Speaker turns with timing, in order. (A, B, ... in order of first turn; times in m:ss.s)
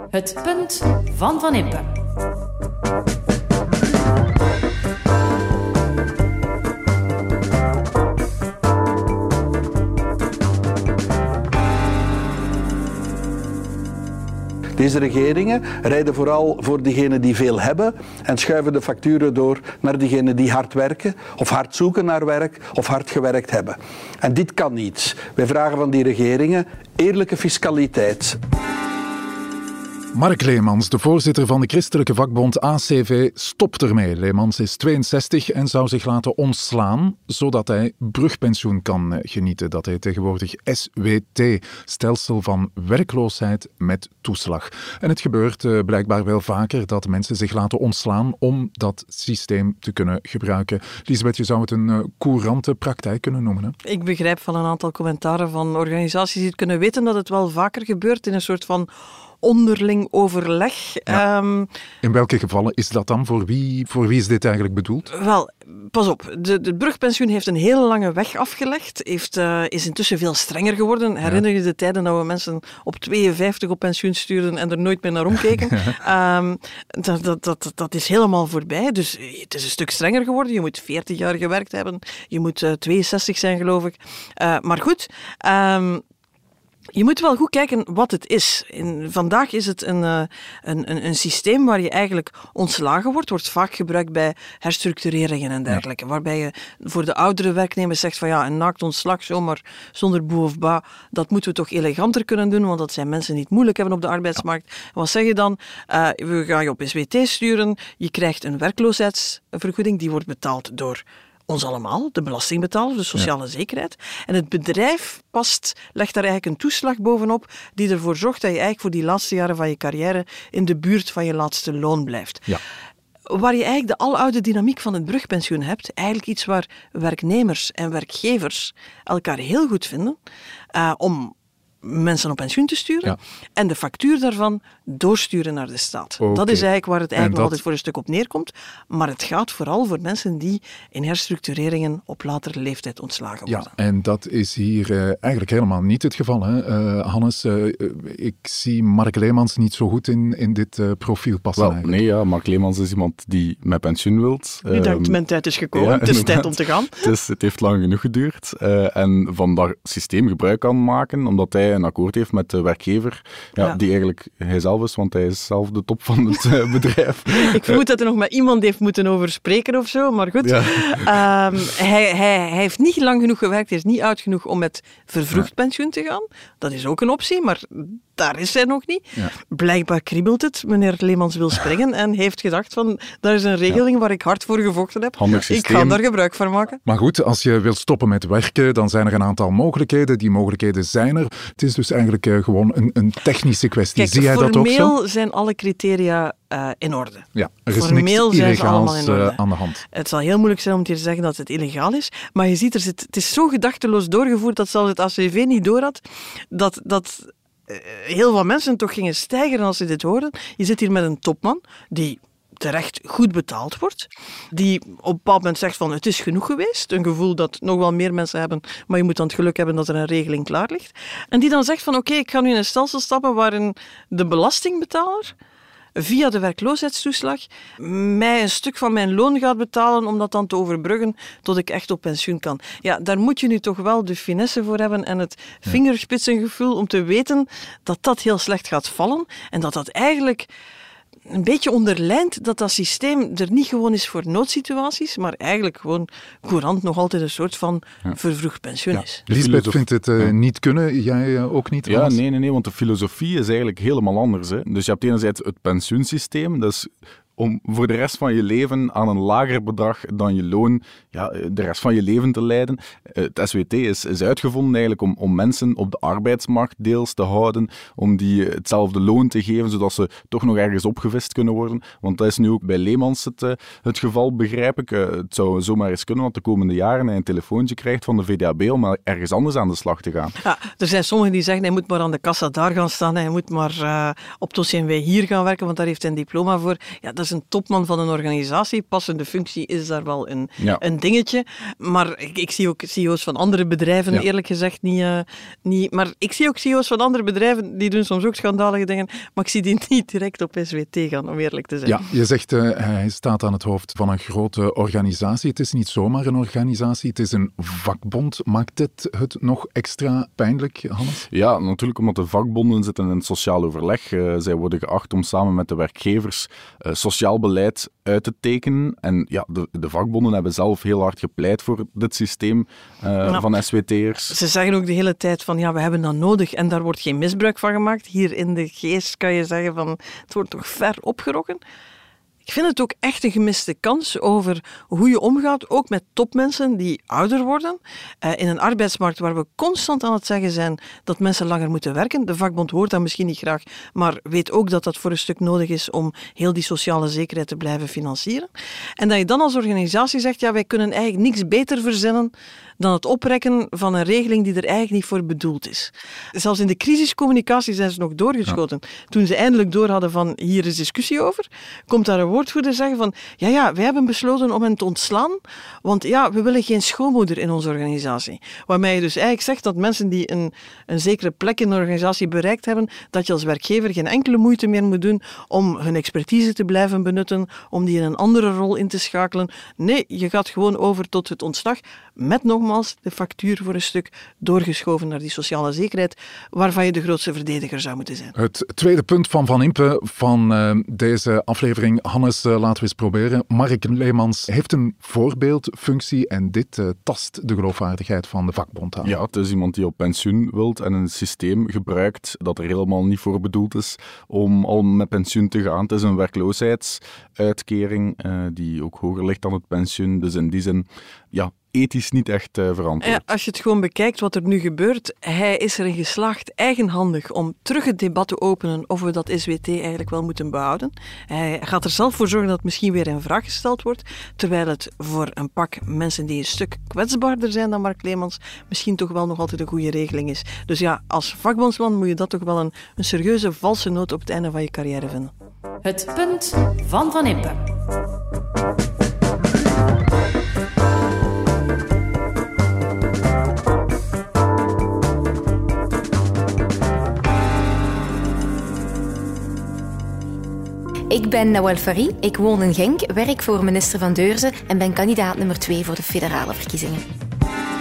0:00.1-0:01.9 A
0:14.8-0:28.4 B
0:30.1-0:53.8 C
0:53.8-0:58.9 D
0:59.4-1:01.7 D
1:02.0-1:05.1 C
1:05.1-1:26.0 D
1:26.9-2:02.5 D
2:03.3-2:10.2 D
2:10.7-2:23.7 D
2:16.2-2:17.6 C
2:23.5-2:32.0 C
2:31.6-2:35.2 E
2:34.6-2:37.0 D
2:35.7-2:47.8 E
2:47.3-3:06.8 D
2:50.4-2:51.2 E
3:05.2-3:06.0 E
3:06.8-3:14.9 C
3:14.0-3:45.3 D
3:17.3-3:19.8 C
3:46.0-4:00.5 D
4:01.3-4:09.2 D
4:08.9-4:12.2 C
4:09.3-4:10.3 E
4:11.8-4:40.3 E
4:40.4-5:02.0 D
5:01.8-5:11.2 C
5:11.3-5:24.3 E
5:24.3-5:31.6 D
5:32.4-6:28.3 D
6:28.3-6:39.2 C
6:39.0-6:53.2 E
6:53.0-7:15.3 D
7:15.8-7:17.6 A
7:31.1-7:37.0 F